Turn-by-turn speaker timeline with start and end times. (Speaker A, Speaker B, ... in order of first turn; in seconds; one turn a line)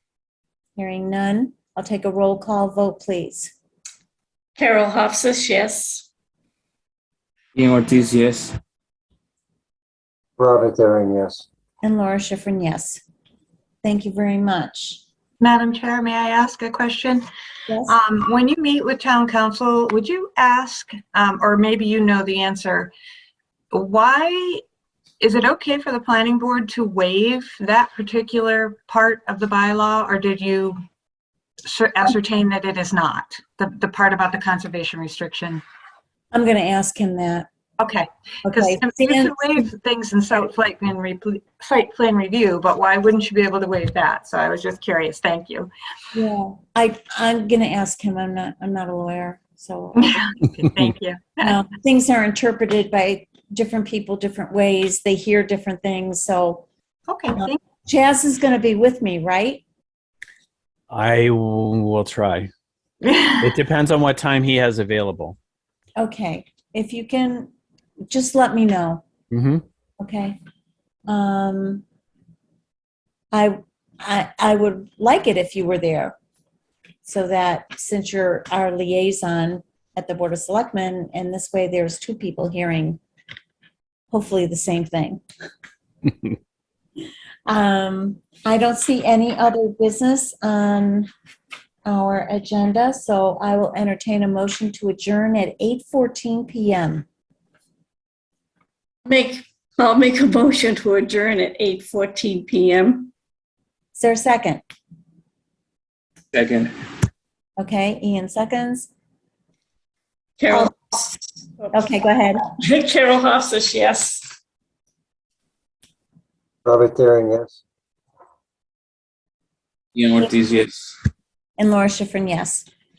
Speaker A: 0.8-3.5
Speaker B: 4.6-6.1
Speaker C: 7.5-8.6
Speaker D: 10.4-11.5
Speaker A: 11.8-13.0
Speaker A: 13.8-15.0
Speaker E: 15.4-17.2
Speaker A: 17.7-18.0
Speaker E: 17.9-22.9
Speaker E: 23.7-24.6
Speaker E: 25.2-30.8
Speaker E: 31.6-35.6
Speaker A: 36.3-37.5
Speaker E: 37.8-45.7
Speaker A: 38.5-39.4
Speaker A: 46.1-50.1
Speaker E: 50.0-51.6
Speaker A: 51.4-56.7
Speaker E: 57.1-57.6
Speaker A: 57.3-59.6
Speaker F: 60.9-62.5
Speaker E: 63.0-63.5
Speaker F: 63.4-65.4
Speaker A: 66.0-67.5
Speaker A: 68.1-69.0
Speaker F: 69.3-69.6
Speaker A: 70.0-70.4
Speaker A: 71.1-71.8
Speaker A: 73.3-76.2
Speaker A: 77.0-83.0
Speaker A: 84.1-85.2
Speaker A: 87.5-91.1
Speaker A: 91.9-97.1
Speaker B: 99.1-103.1
Speaker A: 104.0-104.6
Speaker C: 106.3-106.7
Speaker A: 107.6-108.9
Speaker B: 110.4-111.9
Speaker A: 111.7-112.4
Speaker B: 112.5-114.3
Speaker D: 116.7-117.6
Speaker C: 120.0-121.0
Speaker A: 121.6-122.7